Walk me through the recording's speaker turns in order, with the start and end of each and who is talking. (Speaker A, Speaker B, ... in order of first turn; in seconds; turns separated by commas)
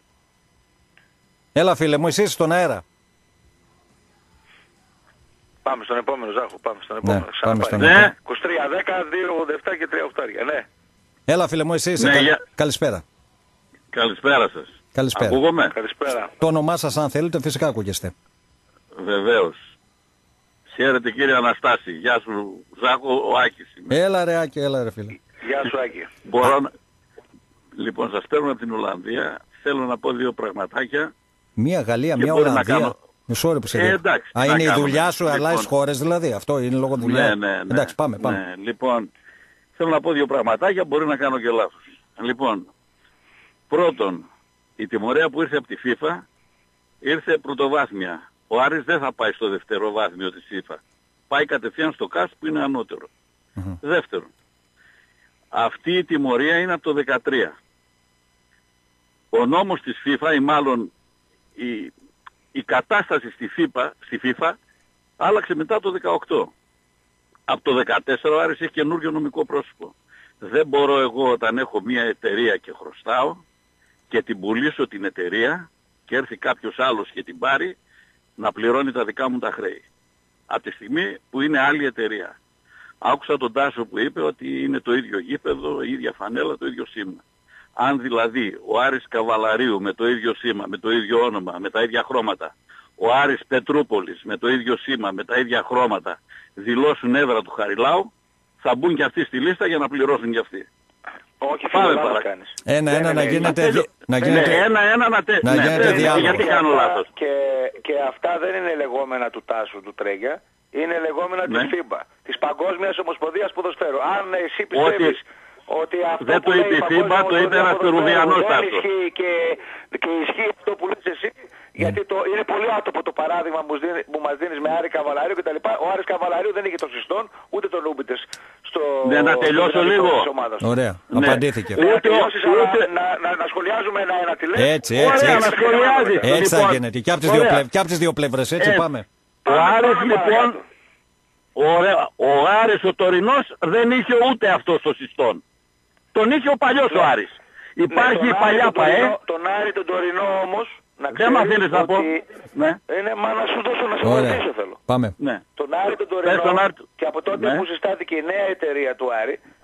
Speaker A: 1.5-2.8, Speaker B: 5.6-10.7, Speaker A: 7.0-8.1, Speaker C: 7.8-8.1, Speaker A: 11.3-13.0, Speaker C: 12.0-12.4, Speaker C: 13.9-15.7, Speaker A: 14.9-15.4, Speaker B: 15.7-16.3, Speaker A: 16.4-18.1, Speaker C: 18.9-19.6, Speaker C: 20.7-23.9, Speaker A: 23.9-25.1, Speaker B: 25.4-26.1, Speaker C: 26.2-26.7, Speaker C: 27.8-31.1, Speaker A: 31.6-38.4, Speaker C: 32.2-32.9, Speaker C: 33.7-35.7, Speaker C: 37.0-39.1, Speaker C: 39.8-42.7, Speaker C: 43.7-44.3, Speaker C: 44.8-46.2, Speaker C: 47.0-53.1, Speaker C: 53.8-54.3, Speaker C: 55.5-57.5, Speaker C: 59.3-60.9, Speaker C: 61.6-61.9, Speaker C: 62.5-64.6, Speaker C: 65.2-66.5, Speaker C: 67.5-73.4, Speaker C: 74.1-77.7, Speaker C: 78.4-79.8, Speaker C: 80.5-82.3, Speaker C: 83.0-87.2, Speaker C: 87.8-98.1, Speaker C: 98.6-100.7, Speaker B: 101.4-103.5, Speaker C: 101.7-102.2, Speaker A: 102.7-104.6, Speaker C: 103.3-107.0, Speaker B: 104.2-104.6, Speaker A: 105.4-106.4, Speaker B: 105.5-130.7, Speaker C: 111.5-111.7, Speaker C: 114.7-115.2, Speaker C: 116.2-118.8, Speaker C: 129.0-130.3, Speaker A: 130.6-131.8, Speaker C: 131.1-132.8, Speaker B: 131.8-136.3, Speaker A: 134.6-135.4, Speaker C: 134.9-137.6, Speaker A: 136.2-139.0, Speaker C: 138.6-138.8, Speaker C: 139.4-140.6, Speaker B: 139.4-140.6, Speaker C: 141.6-145.4, Speaker C: 146.1-149.1, Speaker B: 147.9-152.2, Speaker C: 151.1-152.8, Speaker B: 152.9-154.8, Speaker A: 154.0-155.2, Speaker B: 155.6-159.4, Speaker C: 156.2-156.8, Speaker C: 157.4-157.6